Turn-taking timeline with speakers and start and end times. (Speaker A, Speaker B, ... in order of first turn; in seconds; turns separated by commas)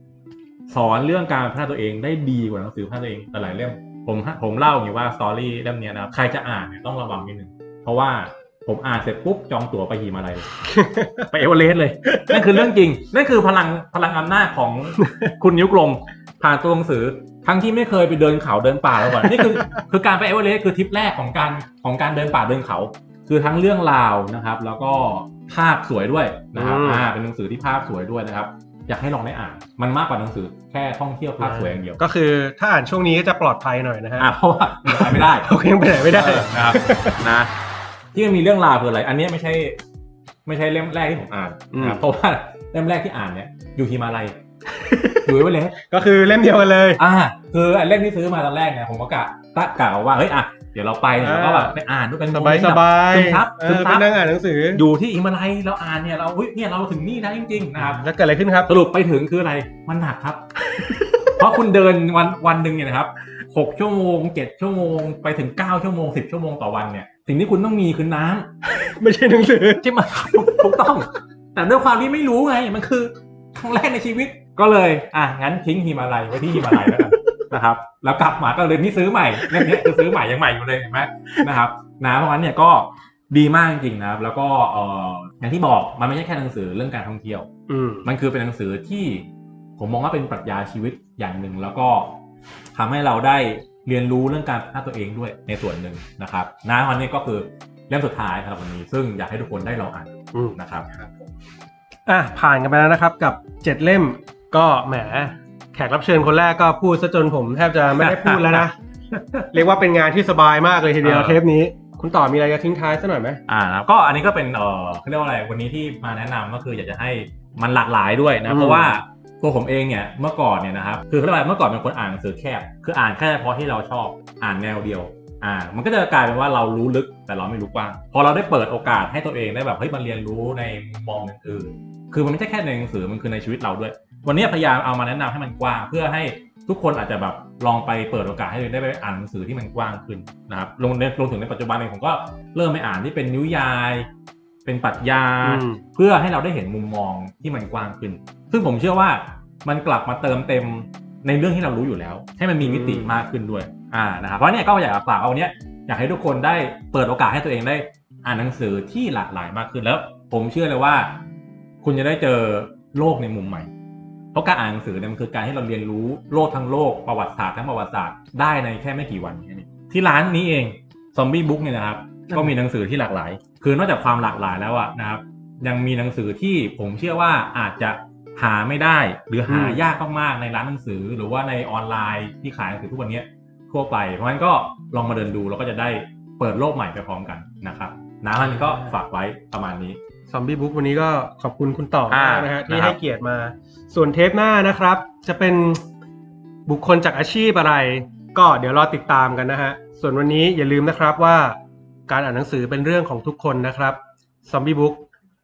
Speaker A: 0.7-10.5, Speaker B: 10.6-11.3, Speaker A: 11.2-32.0, Speaker B: 15.0-15.3, Speaker B: 19.1-19.8, Speaker B: 26.6-27.1, Speaker B: 31.4-34.3, Speaker A: 34.2-35.5, Speaker B: 34.9-37.2, Speaker A: 36.1-37.5, Speaker A: 38.1-39.8, Speaker A: 40.5-44.4, Speaker B: 41.7-42.0, Speaker B: 44.7-47.0, Speaker A: 45.2-45.8, Speaker A: 47.0-54.1, Speaker B: 51.2-51.8, Speaker B: 52.3-54.8, Speaker A: 54.7-58.0, Speaker B: 57.8-58.8, Speaker A: 58.7-60.4, Speaker B: 60.7-61.3, Speaker A: 61.4-68.5, Speaker B: 68.7-69.8, Speaker A: 69.8-87.5, Speaker B: 70.6-70.9, Speaker B: 76.5-77.4, Speaker B: 79.4-80.0, Speaker B: 87.7-88.1, Speaker A: 88.0-89.3, Speaker A: 89.8-92.2, Speaker A: 92.8-100.9, Speaker B: 100.3-101.1, Speaker B: 102.1-108.8, Speaker A: 107.9-109.6, Speaker B: 109.5-113.4, Speaker A: 111.0-111.4, Speaker A: 113.5-144.1, Speaker B: 118.5-119.0, Speaker A: 144.7-161.2, Speaker B: 145.4-145.8, Speaker B: 152.6-153.2, Speaker A: 161.8-163.7, Speaker A: 164.3-190.0, Speaker B: 179.5-179.8, Speaker B: 188.4-189.0, Speaker B: 190.3-195.8, Speaker A: 192.1-193.0, Speaker B: 196.7-205.1